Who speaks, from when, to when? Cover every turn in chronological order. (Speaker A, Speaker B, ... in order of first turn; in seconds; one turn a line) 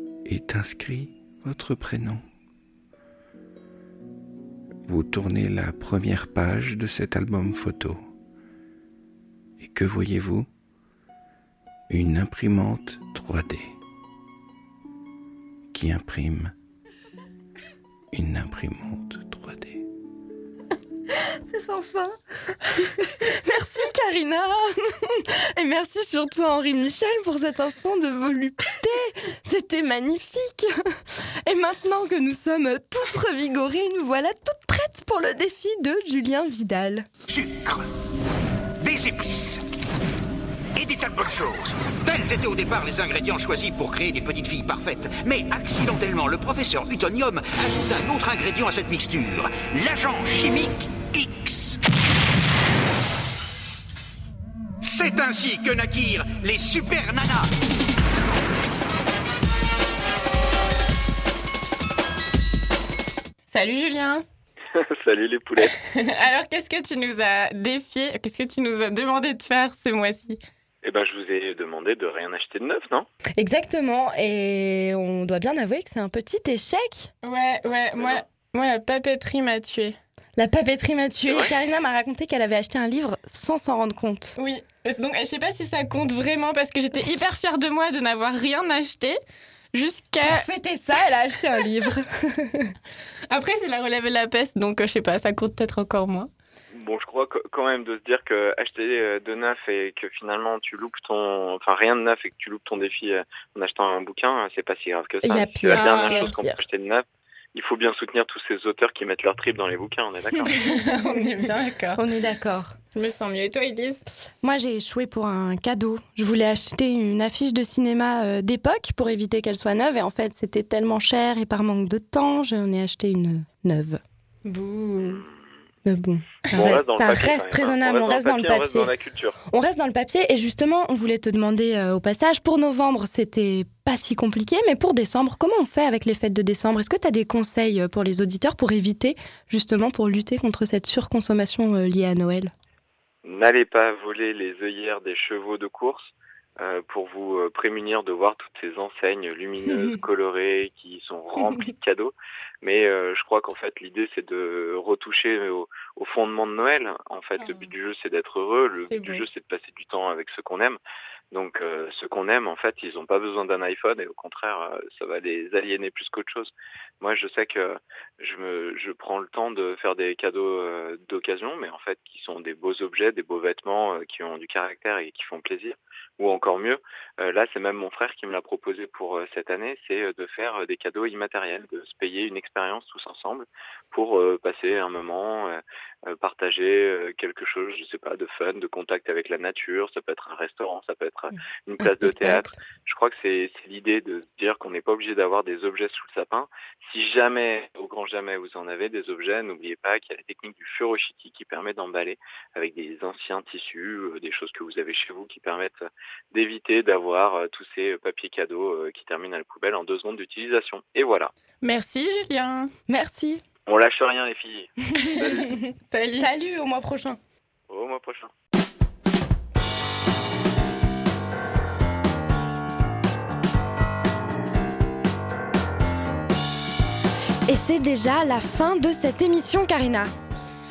Speaker A: 0.2-2.2
Speaker A: 4.9-8.1
Speaker A: 9.6-10.5
Speaker A: 11.9-13.8
Speaker A: 15.7-16.5
Speaker A: 18.1-19.8
Speaker B: 21.5-22.1
Speaker B: 23.2-37.1
Speaker C: 37.3-37.9
Speaker C: 38.8-39.6
Speaker C: 40.8-51.8
Speaker C: 54.8-57.5
Speaker D: 63.5-64.2
Speaker E: 64.7-65.7
Speaker D: 65.6-70.4
Speaker E: 70.8-73.1
Speaker B: 73.4-77.1
Speaker D: 77.2-80.0
Speaker E: 78.0-78.2
Speaker B: 80.4-84.3
Speaker D: 84.4-89.2
Speaker D: 89.7-90.4
Speaker B: 90.2-92.7
Speaker D: 93.3-96.3
Speaker E: 96.7-110.5
Speaker B: 105.2-106.5
Speaker D: 105.7-106.5
Speaker D: 110.5-112.0
Speaker B: 110.6-111.4
Speaker B: 112.0-112.8
Speaker D: 112.9-114.1
Speaker B: 114.4-124.0
Speaker D: 124.4-125.2
Speaker B: 125.9-128.9
Speaker E: 126.5-129.4
Speaker B: 129.5-142.5
Speaker E: 143.2-160.8
Speaker D: 158.9-159.2
Speaker E: 161.3-211.3
Speaker B: 191.8-192.5
Speaker D: 211.6-212.7
Speaker B: 212.9-213.4
Speaker E: 213.7-215.3
Speaker B: 215.0-215.6
Speaker D: 215.0-216.3
Speaker B: 216.1-217.2
Speaker E: 217.7-218.3
Speaker B: 227.5-230.1